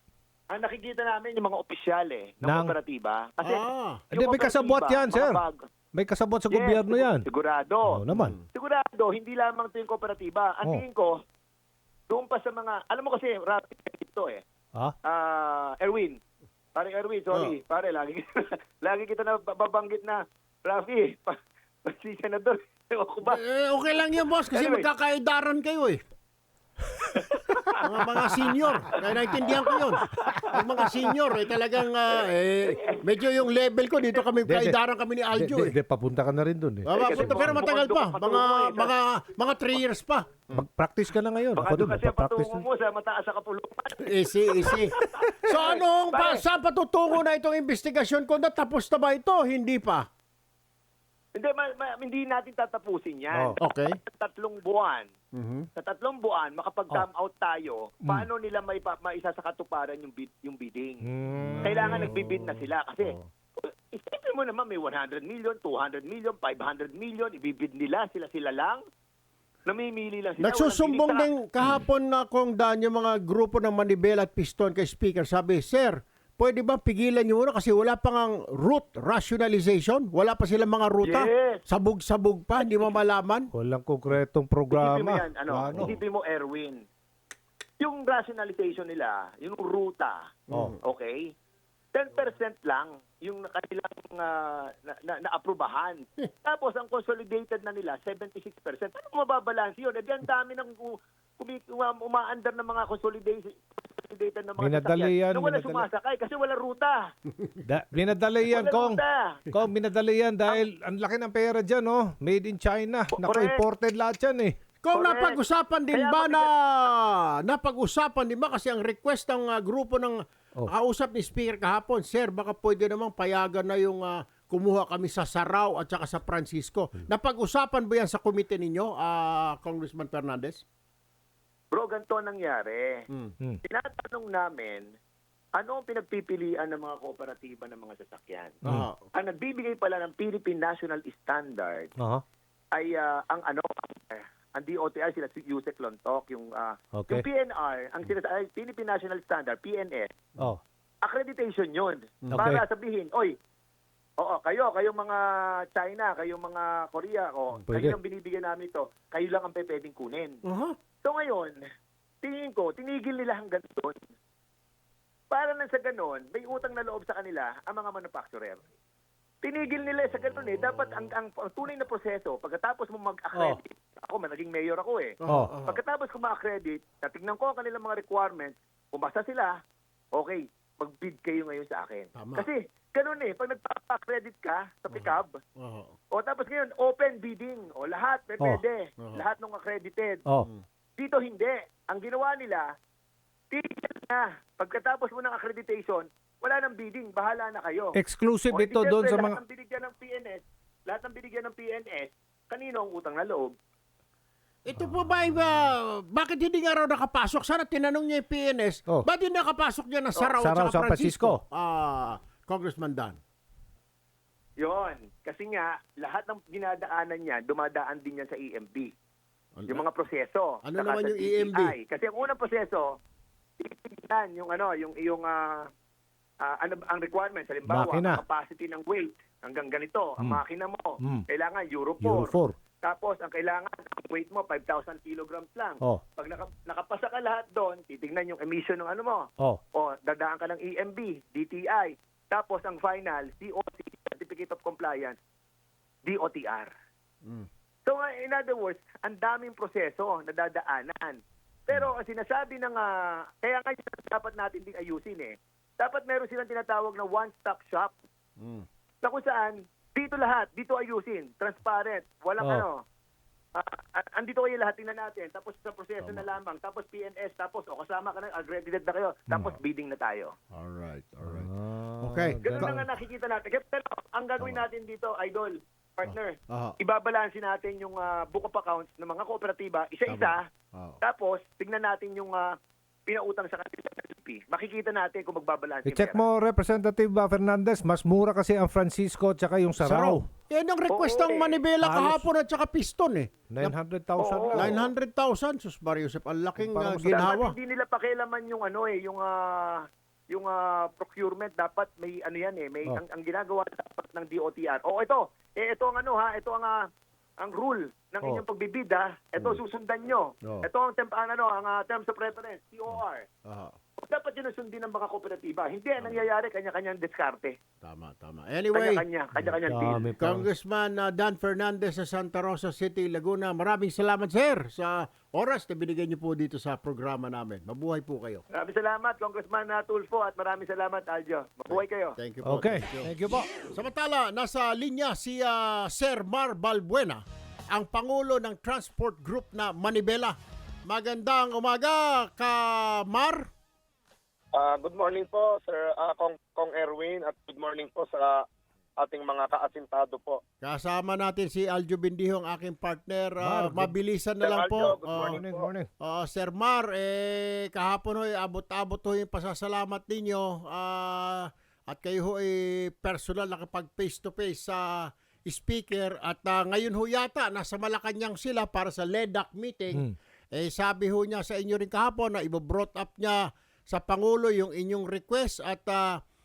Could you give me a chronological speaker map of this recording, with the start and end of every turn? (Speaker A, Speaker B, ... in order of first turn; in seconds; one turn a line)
Speaker A: 0.5-5.6
Speaker B: 2.4-2.7
Speaker C: 3.4-4.0
Speaker B: 4.1-5.4
Speaker B: 5.9-7.2
Speaker A: 6.5-8.0
Speaker B: 7.8-8.4
Speaker C: 8.1-8.4
Speaker A: 8.5-11.2
Speaker A: 12.1-14.4
Speaker A: 15.0-16.2
Speaker A: 16.7-23.4
Speaker C: 23.2-26.0
Speaker A: 24.0-24.9
Speaker A: 27.0-30.9
Speaker C: 27.8-35.8
Speaker A: 32.7-33.2
Speaker B: 34.4-34.8
Speaker B: 35.3-37.6
Speaker C: 36.8-40.6
Speaker A: 36.9-38.9
Speaker B: 40.5-42.6
Speaker A: 41.5-46.4
Speaker C: 44.0-50.0
Speaker A: 51.3-55.1
Speaker B: 53.3-53.6
Speaker C: 53.6-54.0
Speaker C: 55.3-55.7
Speaker A: 55.8-61.0
Speaker B: 61.0-62.2
Speaker C: 61.4-62.2
Speaker A: 61.6-68.8
Speaker C: 63.0-63.3
Speaker A: 69.7-71.3
Speaker C: 70.4-83.5
Speaker A: 81.0-81.6
Speaker A: 82.6-83.0
Speaker B: 83.5-85.9
Speaker A: 84.7-86.8
Speaker A: 87.8-91.2
Speaker C: 90.5-90.8
Speaker A: 91.9-107.0
Speaker B: 104.6-105.9
Speaker B: 107.7-109.0
Speaker A: 108.5-109.4
Speaker B: 109.5-114.6
Speaker A: 113.1-113.6
Speaker C: 114.8-130.6
Speaker A: 114.9-115.4
Speaker A: 115.9-116.5
Speaker A: 131.7-133.1
Speaker A: 133.6-134.9
Speaker A: 135.5-138.6
Speaker C: 138.6-139.0
Speaker A: 139.1-141.9
Speaker B: 142.0-142.2
Speaker A: 142.7-150.1
Speaker B: 146.9-147.2
Speaker A: 151.0-153.3
Speaker B: 152.3-152.6
Speaker A: 154.2-160.4
Speaker B: 157.7-158.0
Speaker C: 160.4-160.7
Speaker A: 161.0-161.6
Speaker A: 162.2-164.0
Speaker A: 165.3-168.6
Speaker A: 169.4-179.5
Speaker C: 175.2-175.8
Speaker A: 180.1-185.4
Speaker C: 182.2-182.5
Speaker C: 184.9-185.9
Speaker A: 186.1-190.2
Speaker A: 191.0-192.6
Speaker A: 193.5-198.0
Speaker B: 197.9-199.4
Speaker A: 198.5-203.5
Speaker C: 204.6-213.2
Speaker B: 210.3-211.4
Speaker A: 214.6-218.9
Speaker C: 219.5-219.8
Speaker A: 219.7-222.9
Speaker C: 220.6-221.7
Speaker A: 223.6-225.7
Speaker A: 226.4-245.2
Speaker B: 227.7-228.2
Speaker B: 232.0-232.5
Speaker A: 246.0-246.7
Speaker A: 247.8-257.9
Speaker C: 258.4-258.6
Speaker A: 259.0-262.8
Speaker B: 262.4-262.6
Speaker A: 263.5-270.3
Speaker C: 266.0-266.3
Speaker B: 269.3-269.6
Speaker C: 270.5-272.7
Speaker B: 271.2-272.8
Speaker A: 272.4-280.4
Speaker C: 276.1-276.7
Speaker C: 280.1-281.0
Speaker A: 281.0-282.5
Speaker A: 283.1-286.2
Speaker B: 285.8-290.2
Speaker C: 289.8-293.7
Speaker A: 290.9-291.6
Speaker B: 291.8-292.2
Speaker B: 293.5-294.8
Speaker A: 294.2-294.8
Speaker C: 294.5-297.5
Speaker B: 296.6-297.3
Speaker A: 297.1-306.8
Speaker A: 307.4-313.2
Speaker C: 313.4-313.7
Speaker A: 314.0-317.6
Speaker C: 316.0-316.2
Speaker C: 317.8-319.6
Speaker A: 318.7-320.1
Speaker B: 319.7-320.5
Speaker C: 320.2-328.4
Speaker A: 328.5-332.1
Speaker C: 331.7-340.4
Speaker B: 332.4-333.5
Speaker C: 340.9-343.5
Speaker D: 344.6-348.4
Speaker D: 349.0-350.4
Speaker C: 350.6-355.4
Speaker B: 353.4-353.9
Speaker D: 354.4-355.6
Speaker B: 355.1-355.9
Speaker C: 356.0-376.2